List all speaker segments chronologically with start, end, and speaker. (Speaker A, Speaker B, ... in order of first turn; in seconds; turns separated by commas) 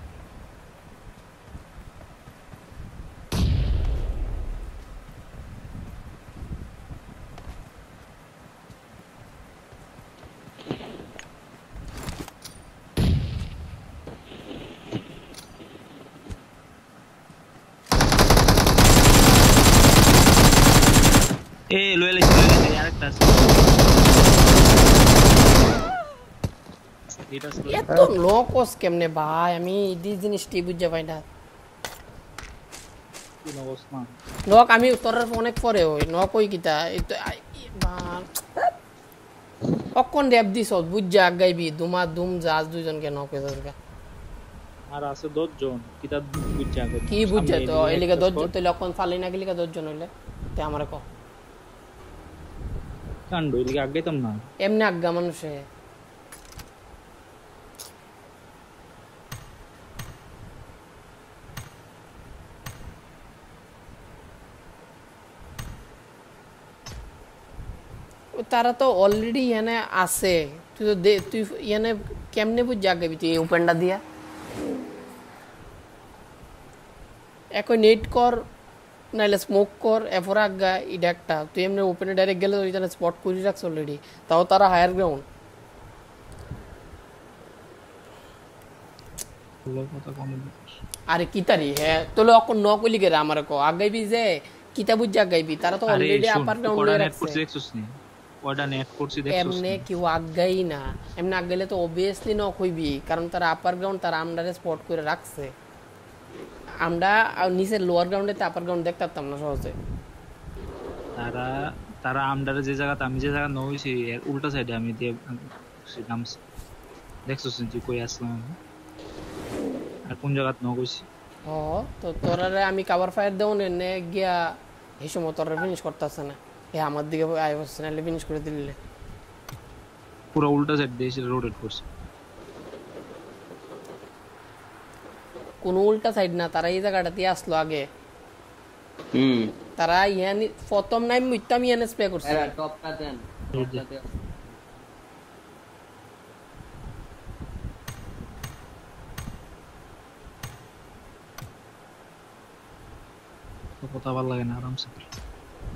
Speaker A: 21.7-23.7, Speaker A: 27.3-28.0, Speaker B: 27.7-31.2, Speaker A: 33.4-34.2, Speaker B: 34.5-38.7, Speaker B: 40.0-43.8, Speaker A: 44.9-48.5, Speaker B: 47.1-51.0, Speaker A: 53.3-54.5, Speaker B: 54.6-55.6, Speaker B: 68.3-74.0, Speaker B: 77.6-78.5, Speaker B: 79.1-85.2, Speaker A: 89.7-90.8, Speaker B: 91.1-97.4, Speaker A: 95.9-99.8, Speaker B: 99.3-105.5, Speaker B: 106.8-109.8, Speaker A: 111.2-116.4, Speaker A: 117.3-118.6, Speaker A: 120.1-121.0, Speaker B: 121.5-128.8, Speaker A: 130.3-131.8, Speaker B: 135.6-137.9, Speaker C: 139.2-139.5, Speaker B: 139.8-142.5, Speaker C: 142.2-144.2, Speaker A: 143.6-143.8, Speaker A: 153.8-155.1